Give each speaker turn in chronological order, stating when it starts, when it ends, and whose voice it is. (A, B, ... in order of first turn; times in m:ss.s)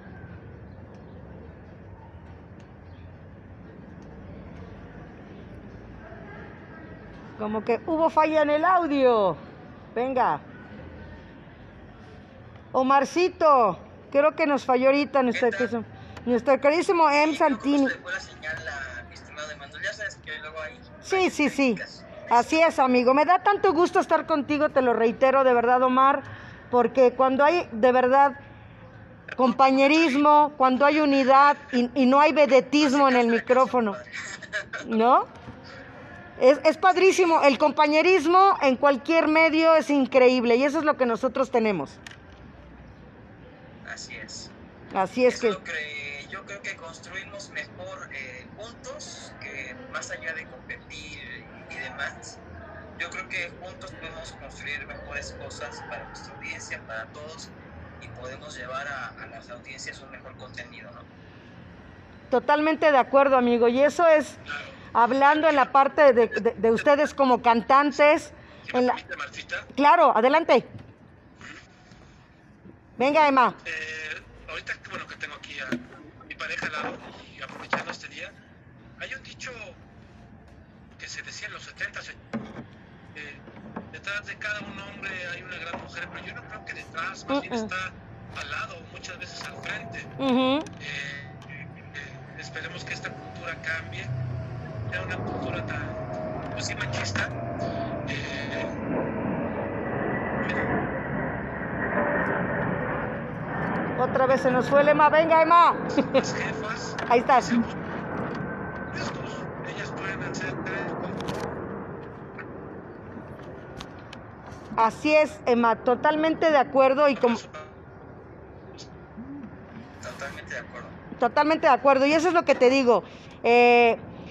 0:07.4-0:09.4 A
0:09.9-0:10.4 A
0:12.7-0:17.9 A
0:15.3-0:15.7 B
0:17.2-0:22.3 B
0:21.0-0:28.4 A
0:29.4-0:34.0 A
0:29.8-0:30.1 B
0:32.8-0:34.9 B
0:34.8-0:35.3 A
0:36.4-0:42.0 A
0:43.8-0:44.5 B
0:44.9-0:45.6 A
0:45.3-0:52.4 B
0:53.0-1:01.1 B
1:02.3-1:04.4 A
1:04.5-1:04.8 C
1:04.9-1:09.0 A
1:05.3-1:06.4 C
1:08.7-1:09.7 C
1:09.7-1:10.7 A
1:13.0-1:13.6 A
1:13.6-1:18.3 C
1:19.0-1:19.8 C
1:21.0-1:22.2 C
1:23.1-1:30.1 C
1:27.3-1:27.7 A
1:30.2-1:30.7 A
1:30.8-1:31.4 C
1:31.9-1:34.1 C
1:34.9-1:37.3 C
1:38.0-1:38.8 C
1:40.4-1:40.7 C
1:44.0-1:46.2 A
1:46.0-1:47.7 C
1:47.1-1:47.6 A
1:48.9-1:51.2 C
1:54.8-1:57.4 A
1:57.2-1:57.7 C
2:00.0-2:01.0 B
2:01.2-2:04.0 A